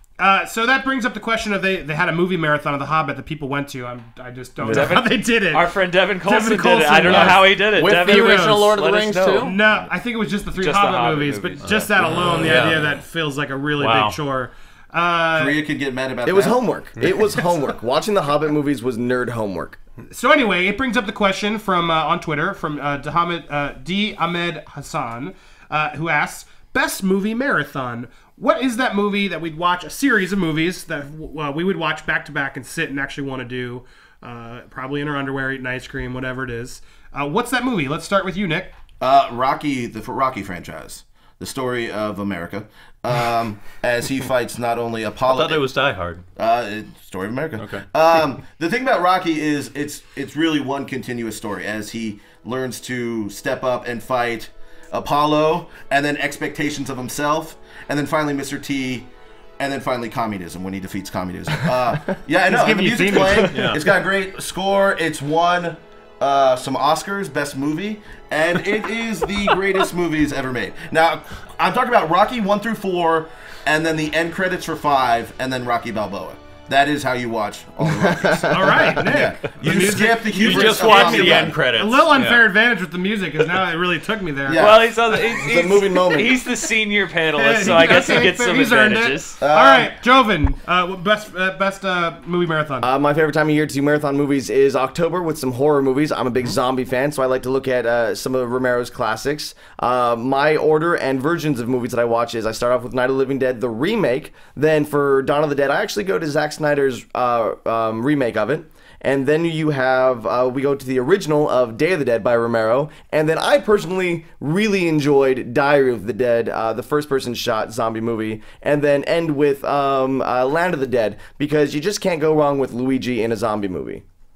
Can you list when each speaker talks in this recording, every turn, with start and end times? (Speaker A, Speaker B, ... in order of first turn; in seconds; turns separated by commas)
Speaker A: 0.2-5.7, Speaker B: 4.6-5.0, Speaker C: 4.6-9.6, Speaker A: 6.2-8.7, Speaker D: 7.0-9.6, Speaker A: 9.3-15.6, Speaker C: 10.5-12.6, Speaker D: 12.2-12.9, Speaker D: 13.8-14.2, Speaker E: 15.3-16.6, Speaker B: 16.2-19.8, Speaker A: 20.1-38.7, Speaker E: 39.0-45.6, Speaker D: 45.3-46.2, Speaker E: 46.4-59.1, Speaker D: 47.6-47.8, Speaker E: 59.6-81.6, Speaker A: 62.5-63.8, Speaker D: 63.5-63.8, Speaker B: 77.8-79.0, Speaker A: 78.5-84.6, Speaker D: 80.3-82.4, Speaker E: 84.5-84.9, Speaker C: 84.5-89.4, Speaker B: 85.3-86.4, Speaker A: 87.3-92.9, Speaker E: 89.4-89.9, Speaker B: 92.8-124.0